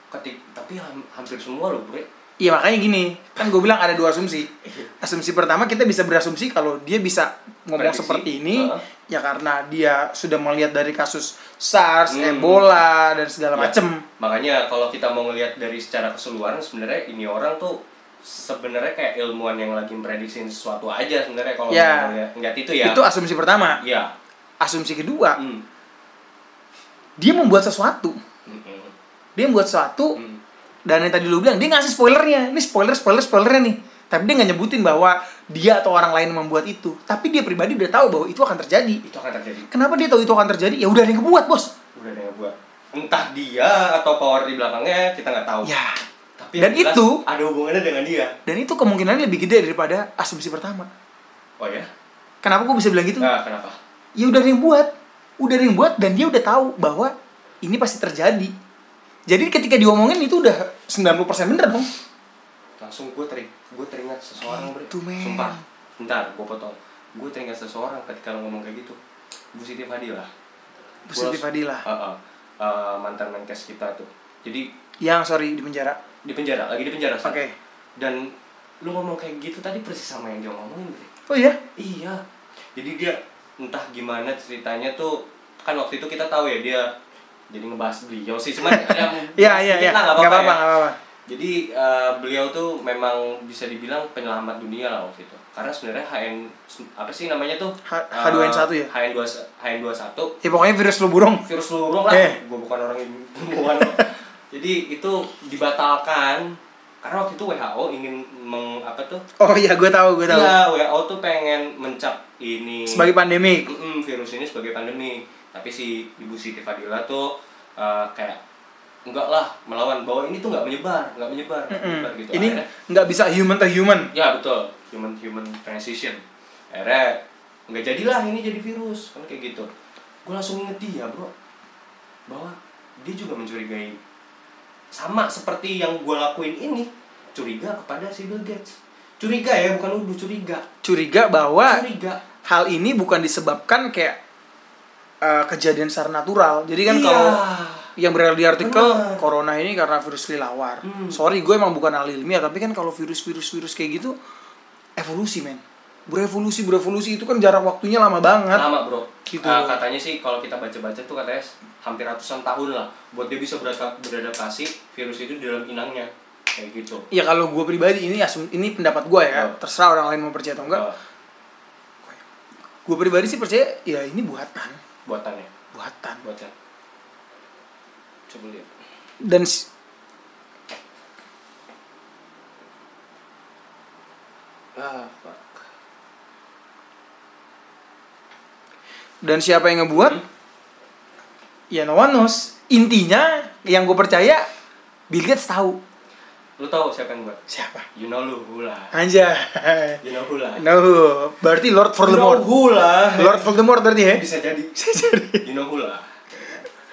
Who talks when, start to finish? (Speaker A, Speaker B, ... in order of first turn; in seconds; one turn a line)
Speaker A: 0.1-2.1
Speaker B: 2.4-14.0
Speaker A: 4.6-4.9
Speaker A: 7.8-8.8
Speaker A: 12.1-12.8
Speaker A: 13.5-23.0
Speaker B: 21.7-22.2
Speaker B: 22.8-23.8
Speaker A: 23.8-24.1
Speaker B: 24.6-25.4
Speaker A: 25.4-25.6
Speaker B: 27.2-28.2
Speaker A: 28.4-28.9
Speaker B: 29.4-30.2
Speaker B: 30.9-39.0
Speaker A: 39.0-39.7
Speaker B: 39.7-41.7
Speaker A: 42.0-45.7
Speaker B: 45.6-46.0
Speaker A: 46.4-48.4
Speaker B: 46.6-47.2
Speaker B: 48.5-50.9
Speaker A: 51.6-51.9
Speaker B: 52.4-53.3
Speaker A: 53.2-53.8
Speaker B: 54.2-58.5
Speaker B: 59.3-61.9
Speaker A: 62.8-69.0
Speaker B: 64.4-65.6
Speaker A: 69.5-70.3
Speaker B: 71.1-71.8
Speaker A: 71.1-74.7
Speaker B: 75.0-76.0
Speaker A: 76.2-77.4
Speaker B: 77.2-77.5
Speaker A: 78.0-81.1
Speaker B: 81.3-81.6
Speaker A: 81.8-82.2
Speaker A: 82.7-87.0
Speaker A: 87.5-90.7
Speaker B: 88.7-91.0
Speaker A: 91.3-100.4
Speaker B: 97.9-98.9
Speaker B: 100.4-101.5
Speaker A: 101.4-109.2
Speaker B: 102.1-102.4
Speaker B: 109.4-110.6
Speaker A: 110.3-113.1
Speaker B: 112.9-113.7
Speaker A: 113.6-118.4
Speaker A: 119.1-122.7
Speaker B: 121.7-124.1
Speaker A: 124.1-129.7
Speaker A: 130.2-131.3
Speaker A: 132.3-134.0
Speaker A: 134.9-140.6
Speaker B: 140.8-141.8
Speaker A: 141.6-142.2
Speaker B: 142.4-144.2
Speaker B: 145.2-147.4
Speaker A: 146.9-147.9
Speaker B: 147.9-154.2
Speaker A: 148.6-149.2
Speaker A: 150.8-151.2
Speaker B: 155.0-158.7
Speaker A: 158.5-167.1
Speaker B: 159.3-159.8
Speaker B: 167.1-170.8
Speaker A: 169.3-169.6
Speaker A: 170.6-171.0
Speaker B: 172.8-174.8
Speaker A: 175.1-175.5
Speaker B: 175.7-176.2
Speaker A: 176.2-176.5
Speaker A: 178.3-178.7
Speaker B: 179.2-179.7
Speaker A: 184.8-185.6
Speaker B: 189.2-190.2
Speaker A: 189.9-190.2
Speaker B: 191.7-194.5
Speaker B: 195.1-195.8
Speaker A: 196.6-197.4
Speaker B: 197.5-197.9
Speaker A: 197.9-198.9
Speaker B: 198.9-200.0
Speaker A: 200.0-200.7
Speaker B: 200.6-202.4
Speaker A: 202.0-203.5
Speaker B: 203.2-204.2
Speaker A: 204.1-204.8
Speaker B: 204.8-205.4
Speaker A: 205.4-206.7